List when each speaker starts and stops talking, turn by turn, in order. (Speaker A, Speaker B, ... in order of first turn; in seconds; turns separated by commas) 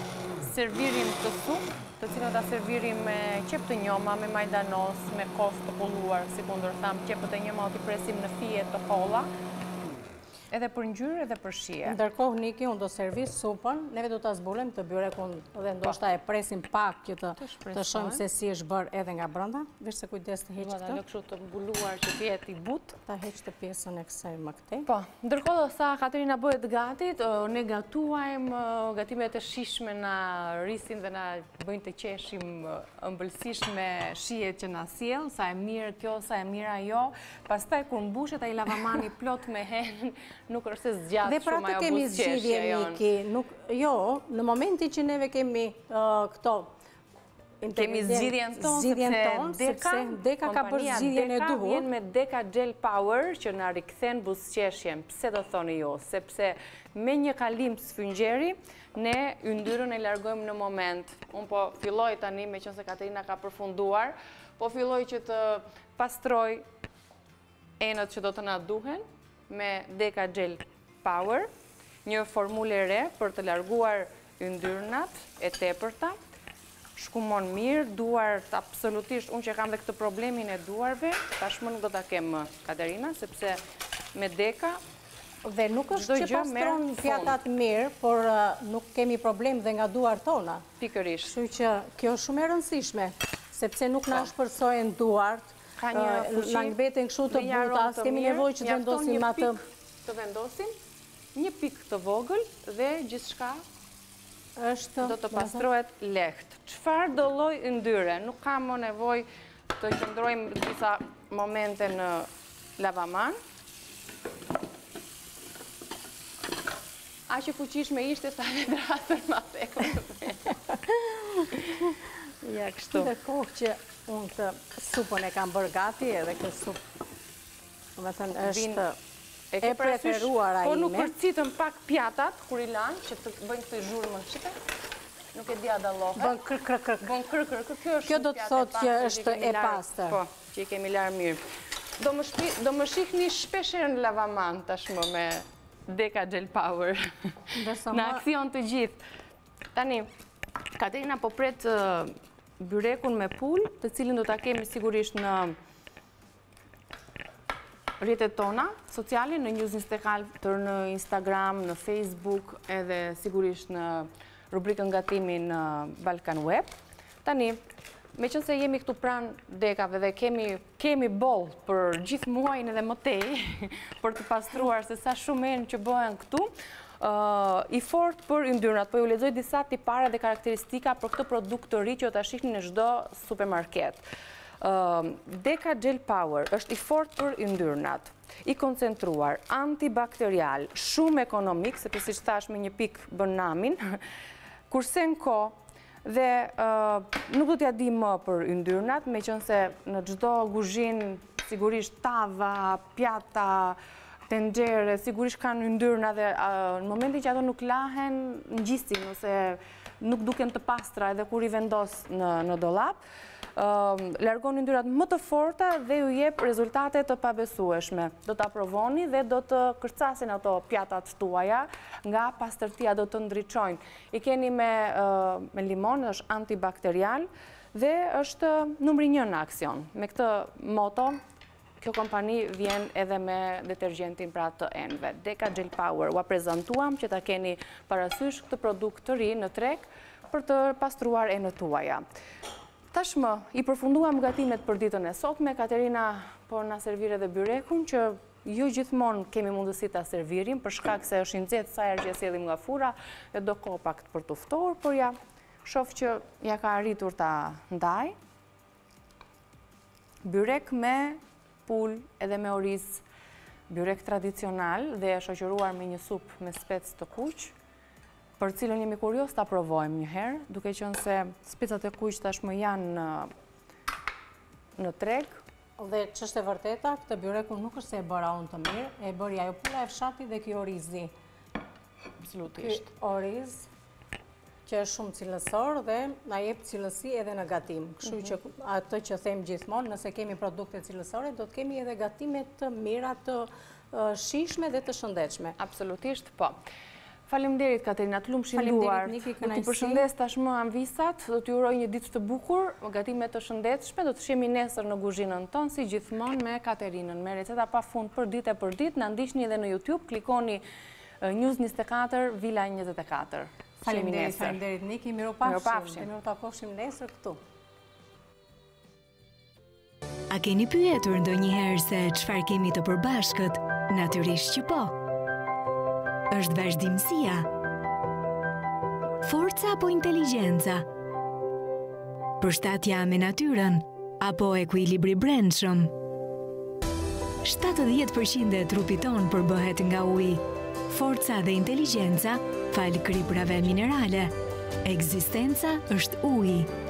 Speaker A: 0.4-9.3, Speaker A: 10.5-12.0, Speaker B: 11.8-21.0, Speaker A: 17.4-18.2, Speaker A: 20.6-23.0, Speaker B: 23.1-24.9, Speaker A: 24.9-43.0, Speaker B: 41.2-46.7, Speaker B: 47.6-51.9, Speaker A: 47.7-66.7, Speaker A: 67.8-71.5, Speaker A: 72.0-76.2, Speaker A: 76.9-83.6, Speaker A: 84.1-84.8, Speaker B: 85.4-90.6, Speaker A: 85.9-87.4, Speaker A: 90.8-91.3, Speaker B: 91.2-99.6, Speaker A: 95.8-100.7, Speaker A: 101.3-103.6, Speaker B: 104.6-105.7, Speaker A: 105.0-113.4, Speaker A: 117.3-120.6, Speaker B: 121.0-121.5, Speaker A: 121.5-123.1, Speaker B: 122.9-126.8, Speaker B: 128.0-129.0, Speaker A: 128.4-128.8, Speaker A: 129.5-134.6, Speaker B: 129.6-131.1, Speaker A: 135.3-136.4, Speaker B: 136.2-137.1, Speaker A: 137.0-141.4, Speaker B: 138.1-140.2, Speaker A: 142.0-149.0, Speaker B: 147.5-148.2, Speaker A: 149.7-150.1, Speaker A: 150.7-155.6, Speaker A: 158.0-167.6, Speaker A: 168.1-184.0, Speaker A: 184.6-194.0, Speaker A: 194.7-213.0, Speaker A: 213.5-231.2, Speaker A: 231.8-242.0, Speaker A: 242.9-258.2, Speaker A: 260.2-263.0, Speaker A: 263.7-267.5, Speaker A: 268.4-273.3, Speaker A: 274.8-275.4, Speaker B: 275.8-281.1, Speaker A: 282.2-282.9, Speaker B: 282.6-283.7, Speaker B: 284.6-295.6, Speaker A: 295.6-296.6, Speaker A: 297.2-310.6, Speaker B: 298.5-300.1, Speaker A: 311.2-314.6, Speaker B: 313.8-317.4, Speaker A: 315.4-316.1, Speaker C: 320.3-325.0, Speaker C: 326.3-327.5, Speaker C: 329.2-330.9, Speaker C: 332.4-335.9, Speaker C: 337.4-344.3, Speaker C: 344.8-346.7